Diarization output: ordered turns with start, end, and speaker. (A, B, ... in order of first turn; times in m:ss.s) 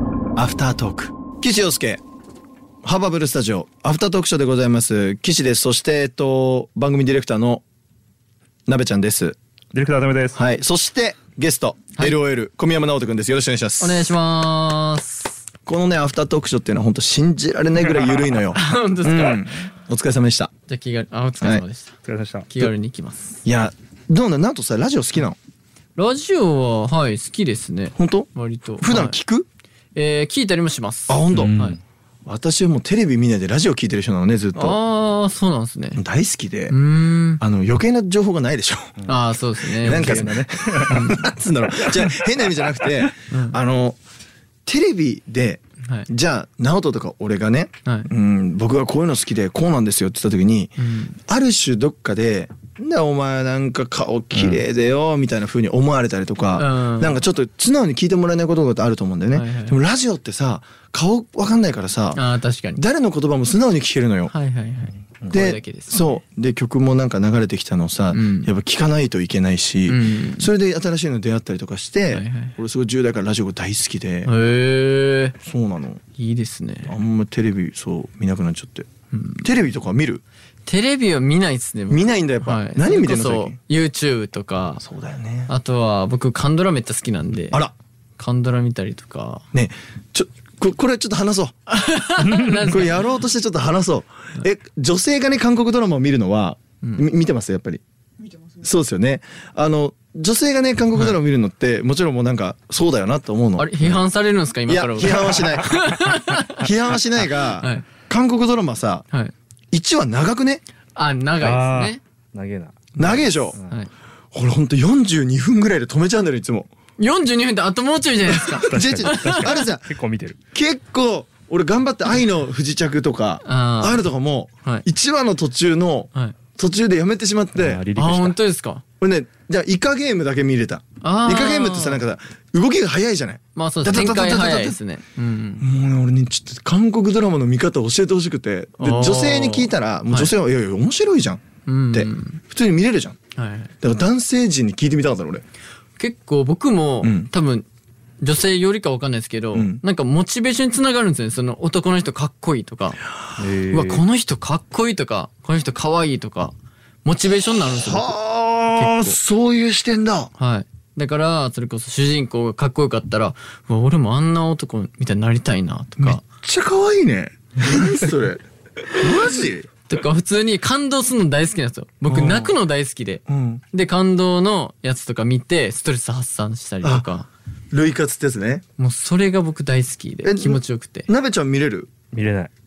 0:00.4-0:02.0 A
0:02.8-0:07.6 A
0:08.7-0:09.4 A
0:09.7-0:10.4 B
0:10.3-0:14.1 A
0:13.8-0:15.4 C
0:15.7-0:20.5 A
0:18.5-0:19.6 C
0:20.7-0:23.4 C
0:22.0-0:22.5 B
0:23.4-0:25.4 A
0:26.0-0:29.2 C
0:28.0-0:29.5 A
0:30.0-0:31.8 C
0:31.1-0:31.6 A
0:31.3-0:31.8 B
0:32.3-0:34.8 A
0:34.6-0:36.0 C
0:36.0-0:36.7 A
0:36.7-0:37.4 C
0:37.4-0:39.0 A
0:39.1-0:40.3 C
0:39.6-0:44.0 A
0:39.8-0:41.2 B
0:40.9-0:41.3 C
0:41.8-0:43.1 B
0:43.3-0:43.6 C
0:44.7-1:02.2 A
0:45.8-0:46.1 C
0:47.8-0:48.1 C
0:50.8-0:51.2 C
0:56.6-0:57.2 C
0:59.3-0:59.8 C
1:02.1-1:02.8 C
1:02.8-1:04.3 A
1:04.3-1:06.2 C
1:05.3-1:14.3 A
1:08.1-1:08.5 C
1:09.9-1:10.5 C
1:12.1-1:12.6 C
1:14.2-1:15.4 C
1:15.4-1:16.0 A
1:16.1-1:17.0 C
1:16.9-1:18.9 A
1:19.1-1:19.5 C
1:19.4-1:20.2 A
1:20.7-1:24.8 C
1:21.9-1:23.6 A
1:24.8-1:25.5 A
1:25.5-1:27.6 C
1:28.2-1:29.5 C
1:29.5-1:31.5 A
1:31.7-1:33.1 C
1:32.2-1:32.7 B
1:32.6-1:37.8 A
1:38.6-1:44.0 A
1:43.6-1:46.7 C
1:44.7-1:45.8 A
1:46.6-1:49.0 A
1:47.2-1:47.9 C
1:49.7-1:50.6 A
1:51.0-1:52.0 C
1:51.4-1:53.8 B
1:53.0-1:53.6 A
1:54.3-1:56.7 A
1:57.0-1:59.6 C
1:58.3-2:00.0 A
1:58.5-2:00.4 B
2:00.5-2:07.8 A
2:03.4-2:04.1 C
2:07.5-2:08.4 B
2:08.0-2:08.8 C
2:09.0-2:14.8 A
2:11.0-2:12.0 C
2:13.6-2:15.7 C
2:15.6-2:23.2 A
2:18.8-2:20.3 C
2:21.6-2:22.4 C
2:23.3-2:23.7 C
2:23.8-2:25.4 A
2:26.0-2:27.7 C
2:27.0-2:27.3 A
2:28.2-2:33.0 C
2:29.5-2:29.8 A
2:33.4-2:34.0 B
2:33.7-2:38.2 C
2:37.6-2:40.3 A
2:38.7-2:39.2 C
2:40.4-2:46.2 C
2:46.0-2:49.7 A
2:49.9-2:57.3 C
2:52.1-2:52.5 A
2:53.3-2:53.6 A
2:56.8-2:57.1 A
2:57.7-2:58.6 A
2:58.8-3:01.1 C
3:00.2-3:01.9 A
3:02.1-3:02.5 B